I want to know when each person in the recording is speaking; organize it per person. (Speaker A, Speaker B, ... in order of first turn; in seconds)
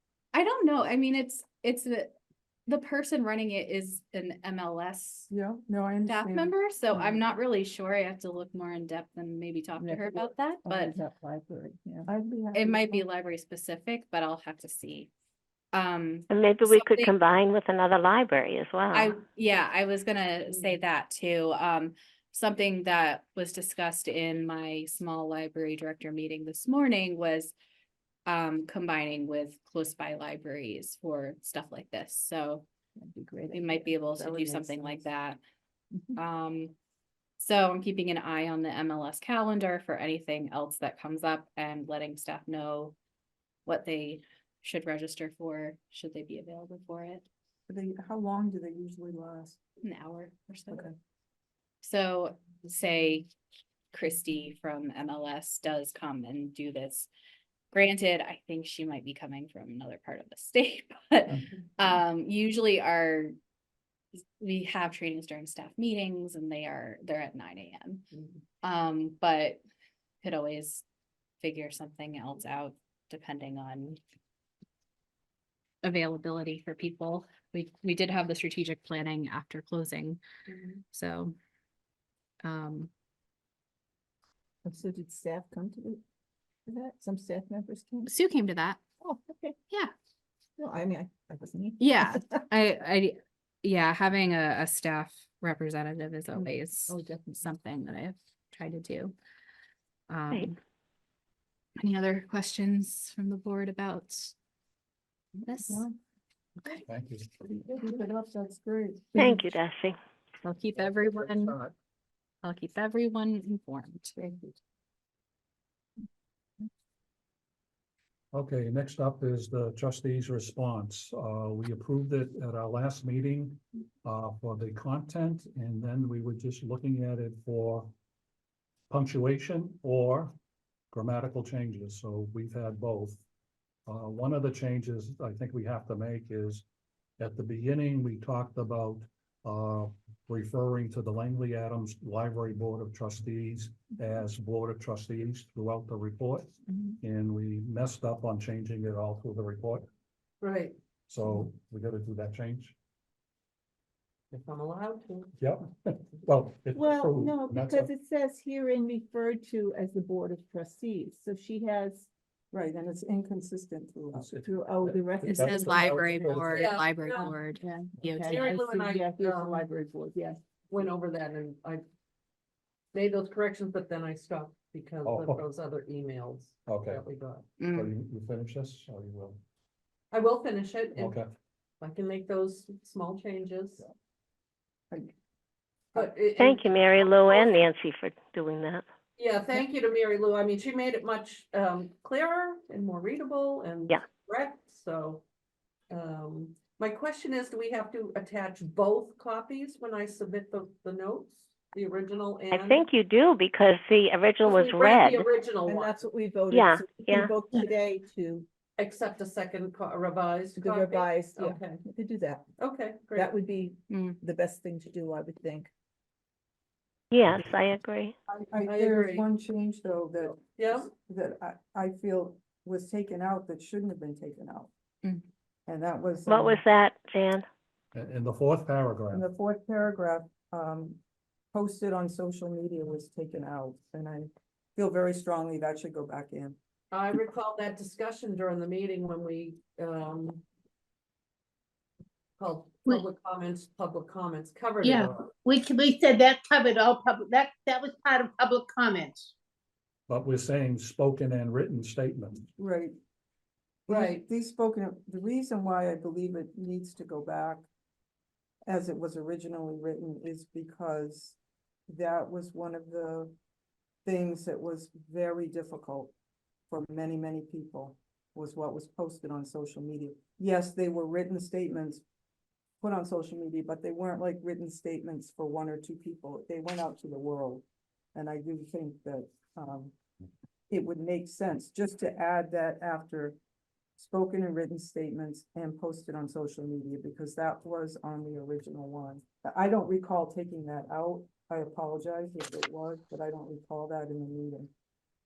Speaker A: 0.3-2.1, 2.7-5.3, 6.0-10.9, 12.5-15.1, 15.7-17.1, 18.9-27.5, 28.2-32.6, 33.5-35.4, 36.1-36.7, 37.4-43.0, 43.6-47.2, 49.8-50.9, 51.8-53.3, 53.9-57.1, 57.7-63.3, 64.4-68.0, 68.6-69.6, 70.2-70.8, 71.4-74.0, 75.8-80.2, 80.9-81.3, 82.4-82.9, 88.0-88.8, 91.8-99.1, 100.1-100.5, 101.8-104.3, 105.4-105.9, 110.4-111.6, 112.4-114.2, 165.3-168.5, 177.6-177.9, 213.9-214.2
Speaker B: 5.3-7.1, 12.1-13.0, 34.1-35.0, 47.7-49.6, 105.7-105.9, 107.7-109.2, 114.2-114.6, 162.5-164.3, 218.3-224.7, 225.7-226.6, 229.1-231.0, 231.5-236.6, 252.6-252.9, 253.9-257.7, 258.6-261.4, 261.9-263.3, 264.0-266.1, 266.7-272.0, 272.8-277.6, 278.1-279.9, 280.7-283.4, 284.0-294.7
Speaker C: 9.8-12.1, 33.0-33.9, 35.9-36.2, 84.6-86.0, 86.7-88.1, 89.0-89.6, 90.6-92.4, 96.3-97.4, 156.7-162.1, 164.4-166.2, 167.6-170.4, 205.7-208.5, 210.5-212.5, 213.1-215.7
Speaker D: 16.3-19.1, 109.2-110.0, 186.4-188.8, 202.5-205.3, 206.5-207.3, 217.1-218.1, 226.3-227.4
Speaker E: 106.8-107.3, 111.4-111.7, 118.3-127.9, 128.9-130.3, 130.9-133.2, 133.9-136.6, 137.2-149.9, 151.1-152.7, 155.4-157.9, 164.1-166.8, 175.0-175.4, 176.6-177.0, 177.6-179.4, 180.9-181.3, 227.9-229.2, 250.1-252.5
Speaker F: 150.4-150.8, 154.3-155.3, 166.5-167.4, 168.2-169.6, 170.7-171.8, 172.9-177.5, 180.1-181.2, 181.8-183.8, 185.9-187.6, 189.2-195.2, 195.9-202.8, 204.4-206.0, 208.8-211.8, 212.6-213.3, 218.6-219.3, 220.2-220.9, 236.9-240.4, 242.4-245.2, 253.9-254.2
Speaker G: 244.8-249.3